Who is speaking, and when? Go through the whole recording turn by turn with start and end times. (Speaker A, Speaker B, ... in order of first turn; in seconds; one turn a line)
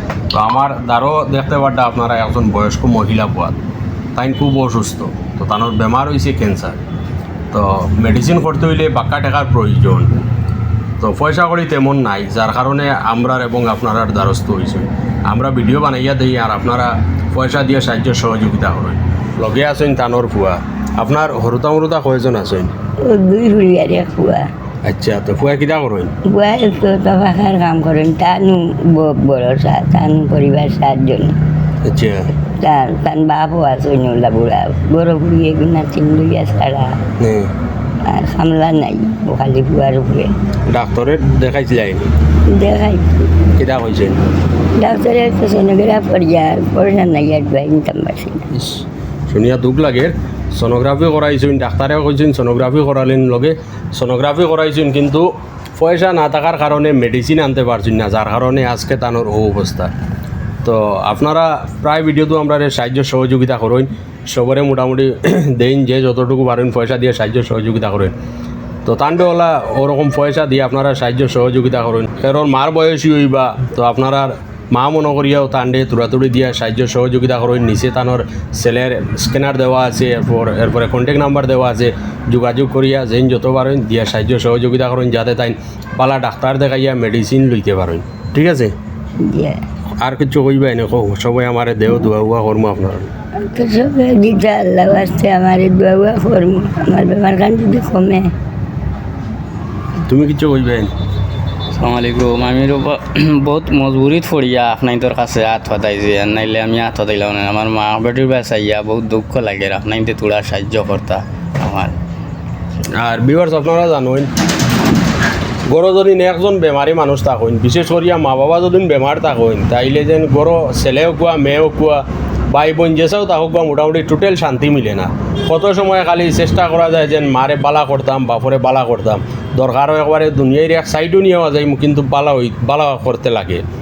Speaker A: 0.3-3.6
Speaker A: 4.2-6.8
Speaker A: 7.5-10.2
Speaker A: 11.0-22.7
Speaker B: 23.0-24.5
Speaker A: 24.9-26.1
Speaker B: 26.3-31.4
Speaker A: 31.8-32.3
Speaker B: 32.5-37.0
Speaker A: 37.2-37.5
Speaker B: 38.0-40.3
Speaker A: 40.7-42.0
Speaker B: 42.5-43.1
Speaker A: 43.6-44.2
Speaker B: 44.8-48.5
Speaker A: 49.3-59.9
Speaker A: 60.6-68.1
Speaker A: 68.8-88.7
Speaker B: 89.2-89.6
Speaker A: 90.0-93.1
Speaker B: 93.4-98.3
Speaker A: 100.0-100.9
Speaker C: 101.7-112.0
Speaker A: 112.9-114.3
Speaker A: 115.7-133.6